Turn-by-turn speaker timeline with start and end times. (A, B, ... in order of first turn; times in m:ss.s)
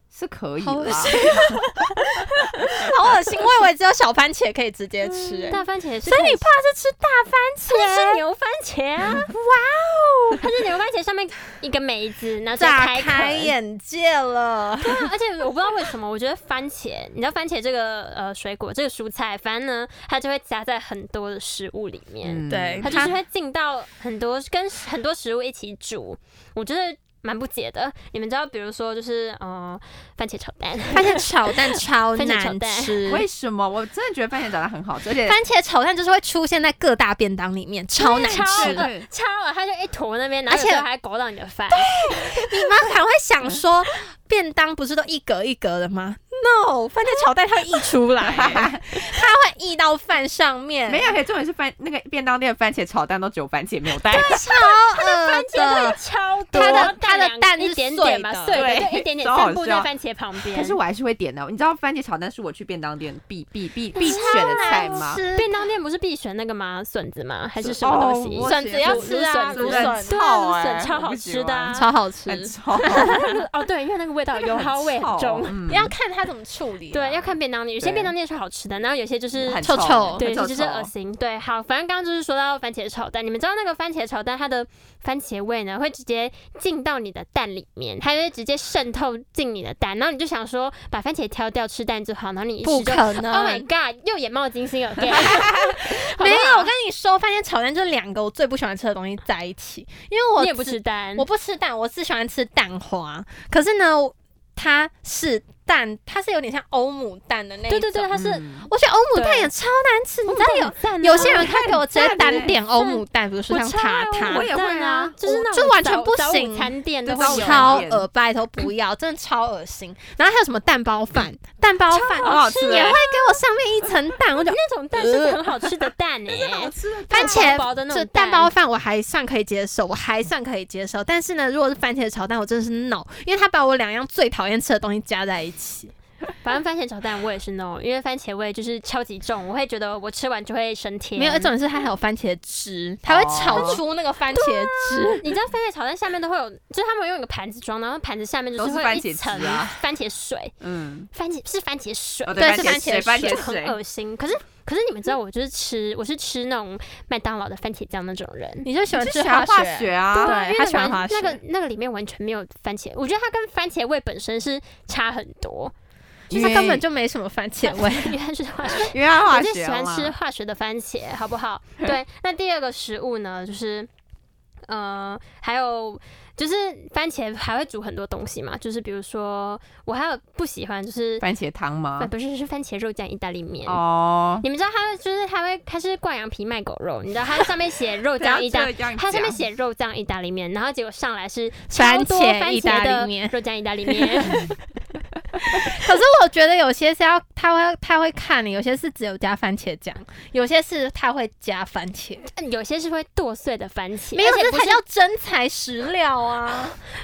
0:00.1-0:01.4 A
0:00.6-0:01.6 B
0:01.1-0:02.8 C
0:02.8-0:08.2 B
0:05.2-0:05.5 A
0:05.5-0:06.5 C
0:07.7-0:09.3 C
0:09.1-0:10.4 B
0:10.4-0:13.5 C
0:12.6-0:15.1 B
0:14.8-0:33.0 C
0:22.2-0:22.9 A
0:22.5-0:23.1 B
0:30.9-0:33.3 B
0:33.1-0:35.4 A
0:35.2-0:38.9 B
0:38.0-0:42.7 C
0:38.4-0:39.1 A
0:40.5-0:40.8 B
0:41.7-0:51.2 B
0:48.2-0:48.8 A
0:50.9-0:54.4 A
0:54.1-0:56.0 B
0:54.1-1:00.8 C
0:56.5-0:56.9 A
0:56.5-0:58.6 B
0:58.5-0:59.9 A
1:00.5-1:05.2 A
1:04.0-1:11.8 C
1:04.0-1:05.5 B
1:07.6-1:13.2 A
1:08.4-1:10.2 B
1:11.7-1:13.2 B
1:12.9-1:15.6 C
1:14.5-1:15.9 A
1:15.7-1:17.4 B
1:16.9-1:36.7 C
1:17.8-1:18.1 A
1:19.4-1:20.9 A
1:19.6-1:20.2 B
1:32.6-1:33.7 B
1:35.1-1:54.5 B
1:40.4-1:41.3 C
1:47.7-1:48.5 C
1:48.1-1:48.7 A
1:49.1-1:49.5 C
1:50.3-1:51.6 C
1:51.2-1:52.6 A
1:52.8-1:57.8 C
1:54.2-1:55.2 A
1:55.2-2:05.4 B
1:57.1-1:58.1 A
2:01.9-2:03.1 C
2:02.2-2:03.0 A
2:04.4-2:08.5 C
2:06.3-2:07.6 A
2:07.1-2:15.9 B
2:16.4-2:21.5 C
2:21.2-2:25.2 B
2:23.1-2:23.8 A
2:23.5-2:23.8 C
2:24.3-2:30.5 C
2:28.6-2:29.8 A
2:30.6-2:31.1 A
2:31.1-2:38.7 C
2:32.3-2:33.8 A
2:32.4-2:33.5 B
2:38.6-2:41.4 B
2:39.0-2:40.4 A
2:40.1-2:45.7 C
2:46.3-2:46.8 A
2:46.3-2:48.2 B
2:47.6-2:53.9 C
2:48.8-2:50.2 A
2:54.7-3:01.3 C
3:01.2-3:02.1 A
3:02.0-3:03.8 C
3:03.7-3:04.4 A
3:04.4-3:14.6 C
3:08.2-3:09.4 A
3:11.7-3:13.4 B
3:13.9-3:14.4 B
3:15.4-3:22.2 B
3:22.3-3:24.8 C
3:24.1-3:26.8 B